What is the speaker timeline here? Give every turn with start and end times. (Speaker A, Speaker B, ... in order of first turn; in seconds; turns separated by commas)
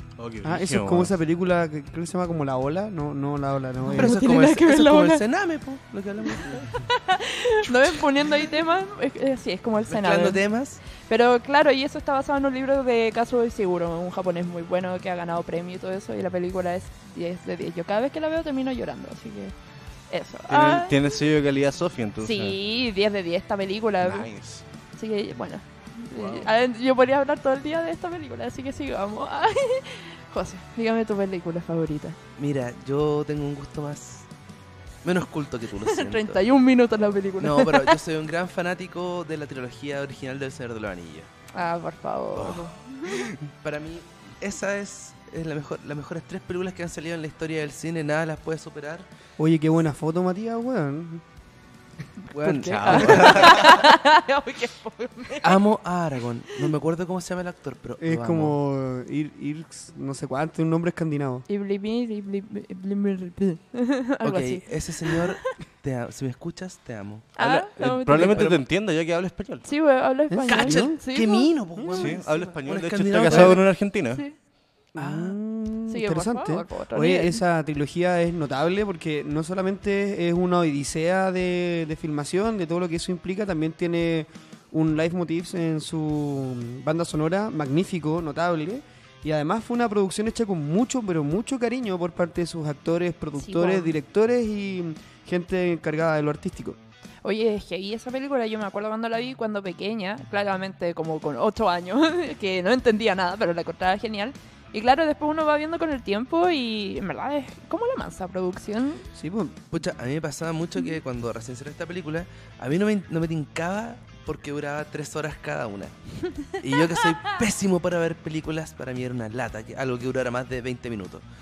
Speaker A: 0.2-1.1, Speaker B: 0.4-4.2, Speaker C: 3.9-5.2, Speaker D: 3.9-6.9, Speaker C: 6.3-19.5, Speaker D: 9.9-10.8, Speaker C: 20.1-20.9, Speaker A: 20.5-22.6, Speaker C: 22.2-24.3, Speaker A: 24.0-24.6, Speaker C: 25.0-32.2, Speaker D: 32.4-34.3, Speaker D: 35.0-36.4, Speaker C: 35.8-38.0, Speaker D: 37.4-41.3, Speaker C: 41.5-43.2, Speaker A: 42.4-43.5, Speaker D: 43.6-49.1, Speaker B: 49.4-51.2, Speaker C: 52.2-55.6, Speaker D: 52.4-53.9, Speaker A: 52.7-53.8, Speaker D: 55.4-58.6, Speaker B: 58.0-61.5, Speaker C: 61.5-65.5, Speaker D: 64.2-68.7, Speaker C: 67.4-68.5, Speaker A: 67.4-69.7, Speaker C: 69.6-71.5, Speaker B: 70.3-71.0, Speaker D: 70.5-73.6, Speaker B: 71.8-72.1, Speaker A: 72.0-74.2, Speaker C: 75.0-75.3, Speaker B: 75.0-96.8, Speaker C: 75.9-77.4, Speaker C: 93.3-93.9, Speaker C: 97.2-109.0, Speaker B: 109.1-109.7, Speaker D: 109.7-116.0, Speaker D: 116.5-121.2